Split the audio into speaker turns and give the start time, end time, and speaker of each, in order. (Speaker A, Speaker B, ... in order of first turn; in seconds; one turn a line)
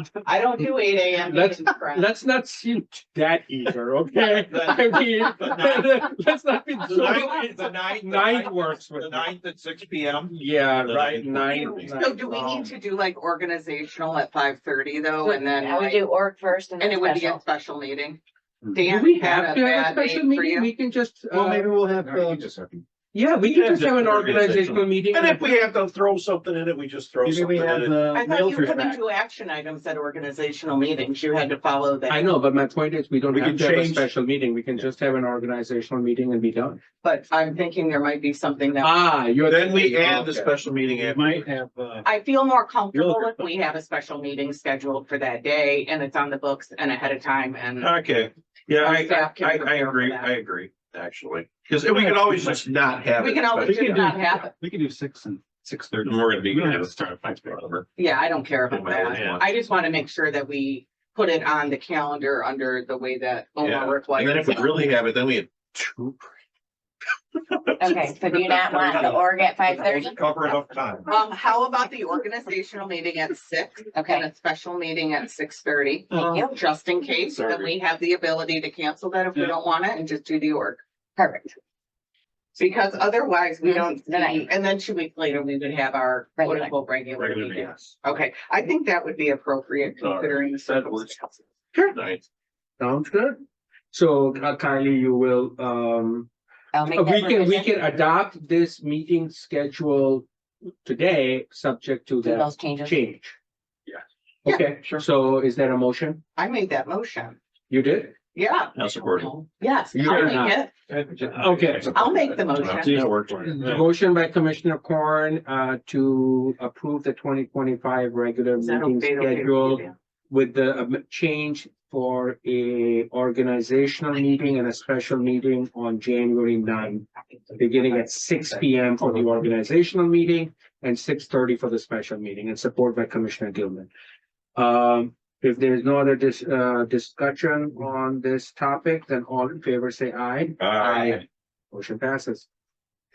Speaker A: 0.2-2.1
Speaker B: 1.2-9.3
Speaker C: 4.5-6.0
Speaker C: 6.9-12.3
Speaker B: 10.3-12.4
Speaker A: 11.9-16.1
Speaker D: 15.2-17.4
Speaker A: 16.8-20.7
Speaker B: 18.8-22.4
Speaker E: 21.3-22.8
Speaker B: 23.1-25.5
Speaker C: 23.4-28.1
Speaker E: 27.2-29.0
Speaker A: 28.1-32.3
Speaker B: 32.1-36.8
Speaker C: 33.3-34.1
Speaker A: 37.0-39.0
Speaker B: 38.8-40.5
Speaker C: 39.4-41.5
Speaker F: 40.8-42.1
Speaker A: 42.0-47.9
Speaker F: 42.9-43.3
Speaker C: 47.8-54.3
Speaker A: 48.8-50.3
Speaker F: 52.2-52.6
Speaker A: 53.2-54.5
Speaker F: 54.6-57.8
Speaker C: 56.0-57.8
Speaker A: 58.0-64.9
Speaker C: 58.7-59.5
Speaker C: 63.6-66.1
Speaker C: 67.8-71.1
Speaker D: 67.8-70.2
Speaker A: 71.0-80.8
Speaker D: 73.9-74.3
Speaker D: 76.1-76.5
Speaker C: 77.3-77.7
Speaker D: 81.2-81.6
Speaker A: 82.6-91.4
Speaker D: 83.6-84.5
Speaker D: 86.4-86.7
Speaker C: 87.2-87.9
Speaker C: 90.0-91.2
Speaker C: 91.7-92.2
Speaker B: 92.8-93.4
Speaker B: 93.9-96.3
Speaker D: 96.7-97.7
Speaker B: 96.8-100.3
Speaker B: 100.8-103.3
Speaker D: 102.2-103.0
Speaker B: 104.4-106.2
Speaker A: 106.3-107.4
Speaker B: 107.7-108.1
Speaker A: 108.3-110.7
Speaker C: 108.8-109.3
Speaker B: 109.9-110.6
Speaker F: 111.1-111.8
Speaker B: 111.3-112.0
Speaker C: 111.6-113.6
Speaker A: 111.9-113.1
Speaker B: 113.4-133.9
Speaker A: 118.6-119.9
Speaker B: 134.5-142.5
Speaker C: 140.6-141.2